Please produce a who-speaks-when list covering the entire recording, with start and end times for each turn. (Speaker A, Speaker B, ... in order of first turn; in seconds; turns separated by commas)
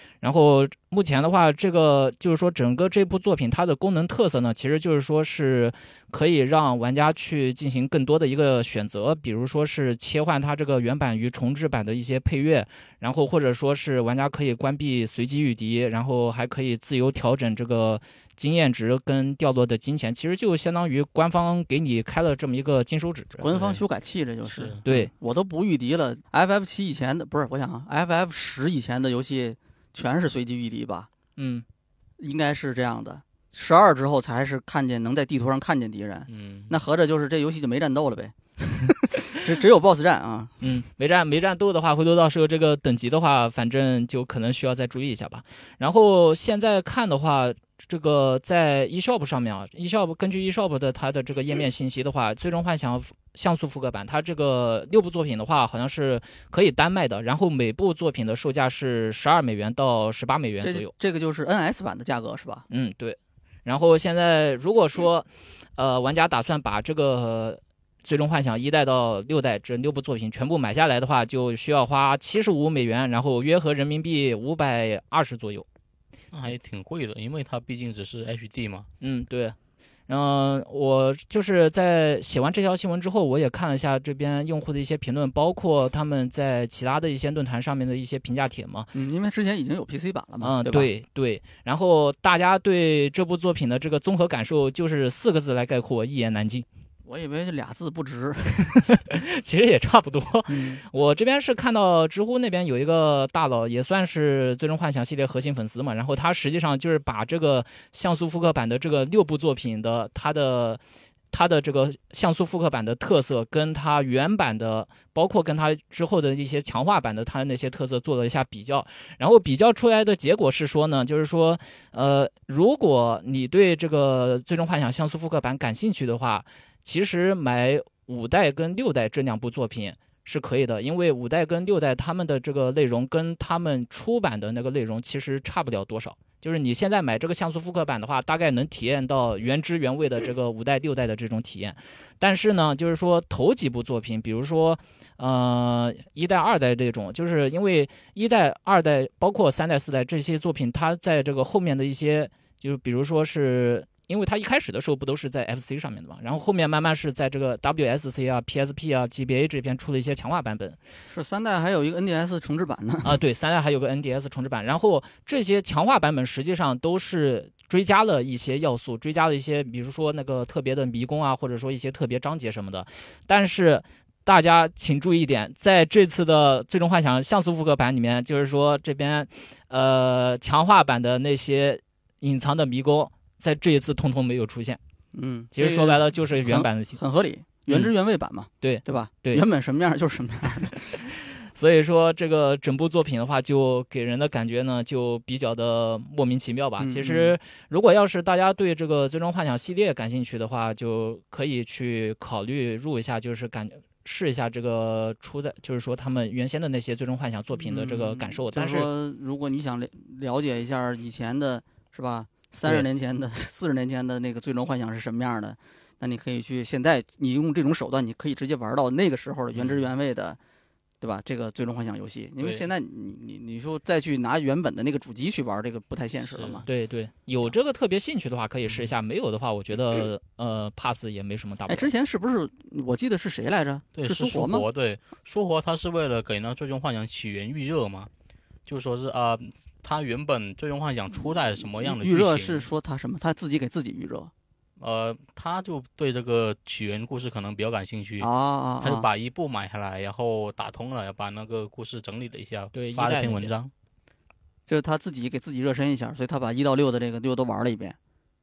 Speaker A: 0.2-23.5, Speaker B: 23.4-31.1, Speaker C: 23.5-23.8, Speaker C: 24.4-24.8, Speaker A: 24.9-25.1, Speaker A: 31.4-31.6, Speaker B: 32.2-40.5, Speaker C: 36.3-36.8, Speaker A: 40.6-60.9, Speaker B: 60.6-62.6, Speaker A: 62.7-75.7, Speaker C: 76.3-78.9, Speaker A: 79.0-79.5, Speaker A: 80.1-88.9, Speaker B: 88.9-90.9, Speaker A: 90.4-96.7, Speaker B: 97.0-98.8, Speaker A: 98.6-110.8, Speaker B: 100.5-100.8, Speaker A: 111.3-160.8, Speaker B: 161.1-163.2, Speaker A: 163.0-184.8, Speaker B: 185.1-191.0, Speaker A: 185.5-187.0, Speaker A: 188.6-189.4, Speaker A: 190.8-208.9, Speaker B: 196.8-197.3, Speaker B: 207.6-220.4, Speaker C: 219.5-219.8, Speaker B: 221.0-226.7, Speaker C: 222.4-222.6, Speaker C: 226.3-226.7, Speaker A: 226.7-231.9, Speaker B: 231.7-234.7, Speaker C: 233.9-238.1, Speaker C: 238.7-242.7, Speaker B: 241.7-244.3, Speaker C: 244.8-248.3, Speaker B: 248.2-249.1, Speaker C: 248.8-253.7, Speaker A: 252.7-253.5, Speaker B: 254.7-258.0